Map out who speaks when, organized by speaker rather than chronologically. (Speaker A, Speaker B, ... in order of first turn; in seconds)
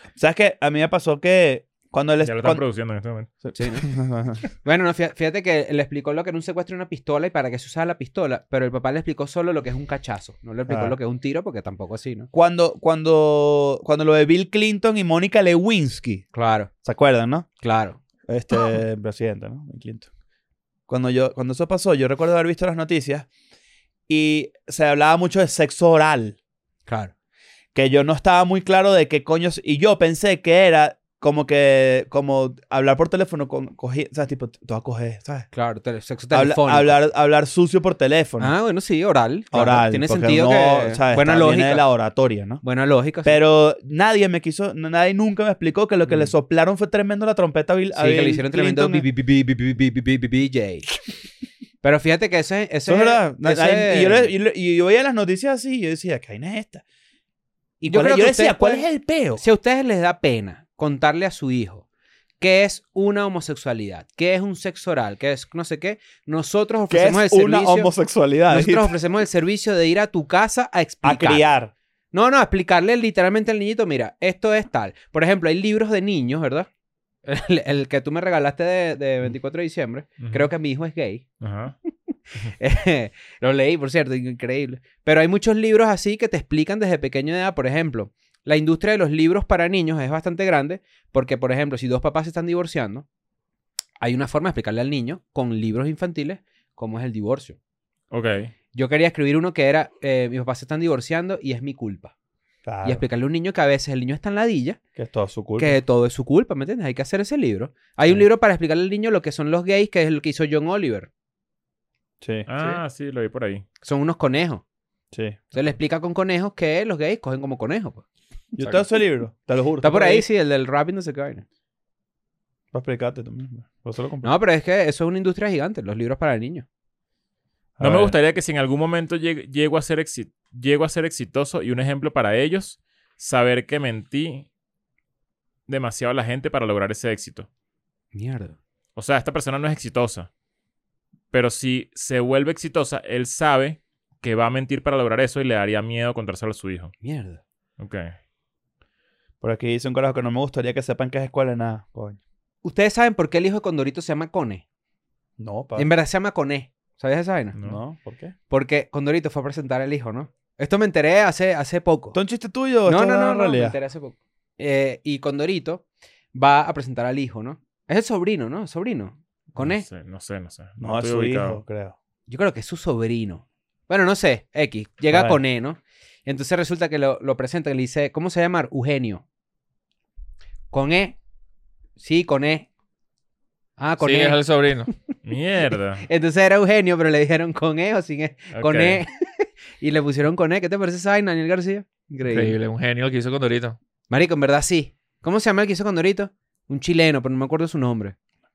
Speaker A: 0.1-2.6, 3.4-4.4, 10.7-10.9, 12.3-16.2, 16.8-17.5, 18.3-20.1, 20.9-23.3, 24.1-26.4, 27.7-35.5, 36.3-38.5, 39.5-42.6, 43.2-49.0, 52.9-56.8, 57.9-59.4, 66.9-69.0, 71.0-71.7, 102.6-103.0, 105.0-105.8, 112.2-112.5, 115.1-115.4, 118.5-120.3, 122.7-124.3, 127.8-128.1, 149.4-152.2, 155.4-155.9, 157.6-158.3, 162.1-163.8, 170.8-171.9, 175.1-175.4
Speaker B: 2.2-3.3, 80.2-80.5, 81.4-81.8, 98.1-98.5, 112.5-113.6, 127.8-134.5, 135.7-137.5, 138.9-140.3, 141.3-146.9, 147.8-148.1, 157.5-157.8, 169.5-171.6, 185.2-186.0, 188.5-189.0
Speaker C: 3.6-3.9, 4.6-12.3, 16.3-16.7, 17.6-18.0, 26.9-27.1, 35.5-37.0, 38.4-41.8, 42.6-43.4, 46.0-46.3, 47.9-50.9, 51.8-54.3, 57.8-61.8, 62.4-67.9, 68.5-71.4, 72.1-76.7, 77.2-81.2, 82.6-93.0, 94.0-97.6, 98.7-102.1, 102.8-104.8, 105.6-111.1, 113.8-114.6, 115.5-118.0, 119.8-121.4, 124.2-126.7, 138.1-138.6, 147.0-147.4, 152.6-154.6, 155.8-157.6, 158.5-162.2, 162.8-165.8, 166.3-169.8, 172.3-179.2, 180.7-181.2, 182.0-182.7, 183.8-184.9, 186.0-192.6, 194.1-198.1
Speaker D: 118.6-118.8, 184.0-184.9, 192.2-193.8